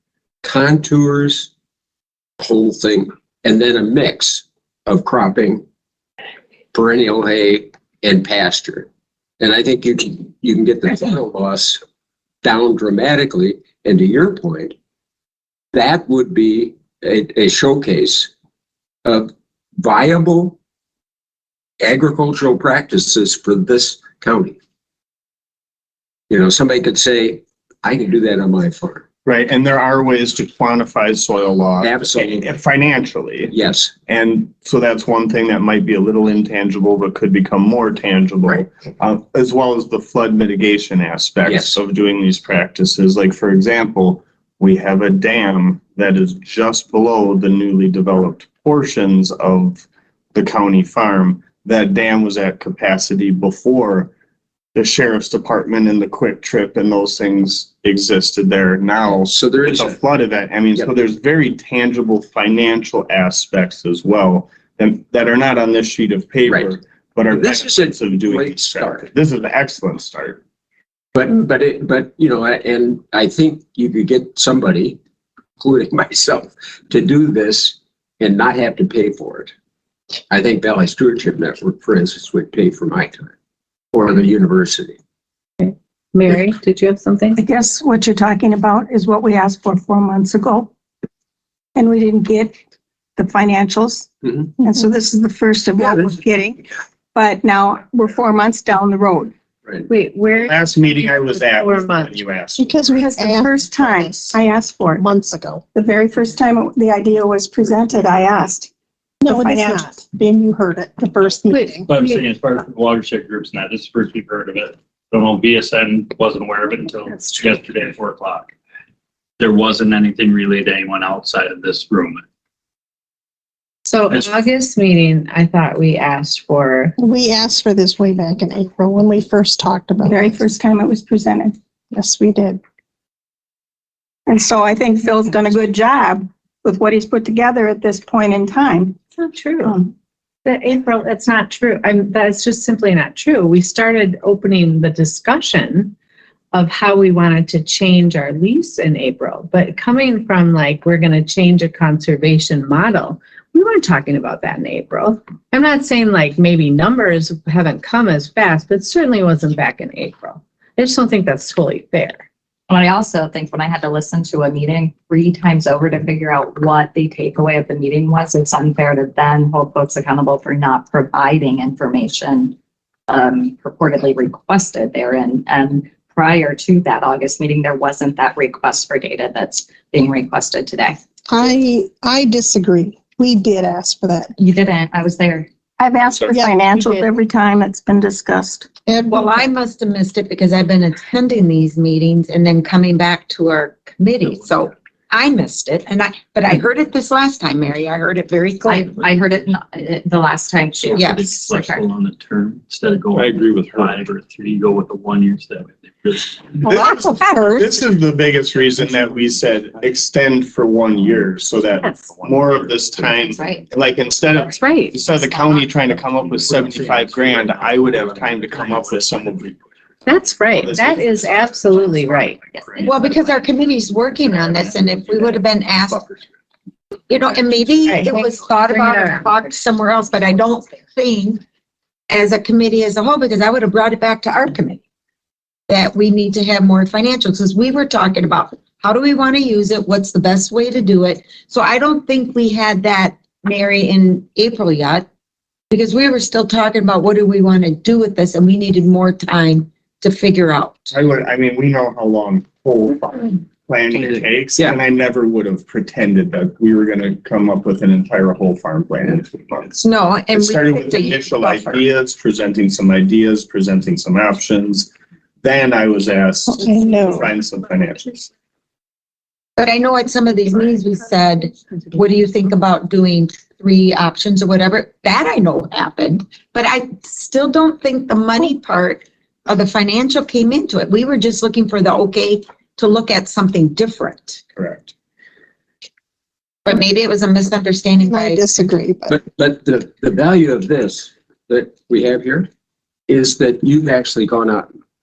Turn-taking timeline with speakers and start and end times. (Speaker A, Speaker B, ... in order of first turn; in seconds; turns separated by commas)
Speaker A: 0.4-1.5, Speaker A: 2.4-5.6, Speaker A: 6.7-8.9, Speaker A: 9.4-11.8, Speaker A: 12.4-14.7, Speaker A: 15.7-18.3, Speaker A: 19.0-20.6, Speaker A: 21.8-24.6, Speaker A: 26.3-29.0, Speaker B: 29.2-33.5, Speaker A: 31.8-32.5, Speaker A: 33.5-33.9, Speaker B: 34.1-54.1, Speaker A: 41.4-41.8, Speaker B: 54.7-70.4, Speaker A: 59.1-60.0, Speaker A: 66.5-66.8, Speaker A: 67.3-69.1, Speaker A: 71.1-75.0, Speaker A: 75.6-79.5, Speaker A: 80.3-83.3, Speaker A: 83.9-85.0, Speaker C: 85.6-87.4, Speaker D: 87.4-90.7, Speaker D: 91.7-92.5, Speaker D: 93.2-99.3, Speaker C: 99.9-102.2, Speaker B: 100.4-102.9, Speaker E: 102.6-104.4, Speaker D: 103.0-105.0, Speaker E: 105.0-105.6, Speaker D: 105.7-108.7, Speaker E: 109.2-111.9, Speaker D: 109.3-109.9, Speaker C: 111.5-112.2, Speaker F: 111.9-118.5, Speaker F: 119.4-122.2, Speaker C: 123.8-126.9, Speaker E: 127.0-130.4, Speaker D: 130.1-131.6, Speaker E: 131.9-132.6, Speaker D: 134.2-139.0, Speaker C: 139.2-139.8, Speaker D: 139.6-139.9, Speaker C: 140.4-145.9, Speaker C: 146.5-162.2, Speaker G: 162.7-172.5, Speaker G: 173.1-181.0, Speaker E: 181.3-184.3, Speaker G: 184.4-185.5, Speaker D: 185.8-188.7, Speaker C: 186.7-187.1, Speaker E: 188.9-189.5, Speaker H: 189.1-199.0, Speaker G: 198.7-201.8, Speaker F: 198.8-199.1, Speaker F: 200.8-206.6, Speaker H: 200.9-201.5, Speaker B: 203.1-204.0, Speaker E: 206.6-207.7, Speaker H: 206.7-207.6, Speaker B: 207.6-219.5, Speaker F: 212.2-212.8, Speaker G: 213.1-213.6, Speaker C: 214.4-215.0, Speaker G: 215.2-215.6, Speaker F: 215.9-219.6, Speaker C: 220.1-222.4, Speaker B: 220.6-221.5, Speaker F: 221.8-223.3, Speaker G: 222.6-223.4, Speaker H: 222.8-226.0, Speaker F: 223.9-225.2, Speaker H: 227.1-231.4, Speaker C: 227.9-229.3, Speaker H: 232.1-234.8, Speaker H: 235.7-245.1, Speaker H: 245.7-250.9, Speaker B: 250.9-264.9, Speaker A: 253.9-254.8, Speaker H: 259.8-261.8, Speaker B: 265.4-268.3, Speaker E: 266.5-267.3, Speaker H: 269.6-284.4, Speaker B: 284.6-284.9, Speaker H: 286.6-288.4, Speaker E: 288.0-289.2, Speaker A: 289.1-292.5, Speaker A: 293.1-294.7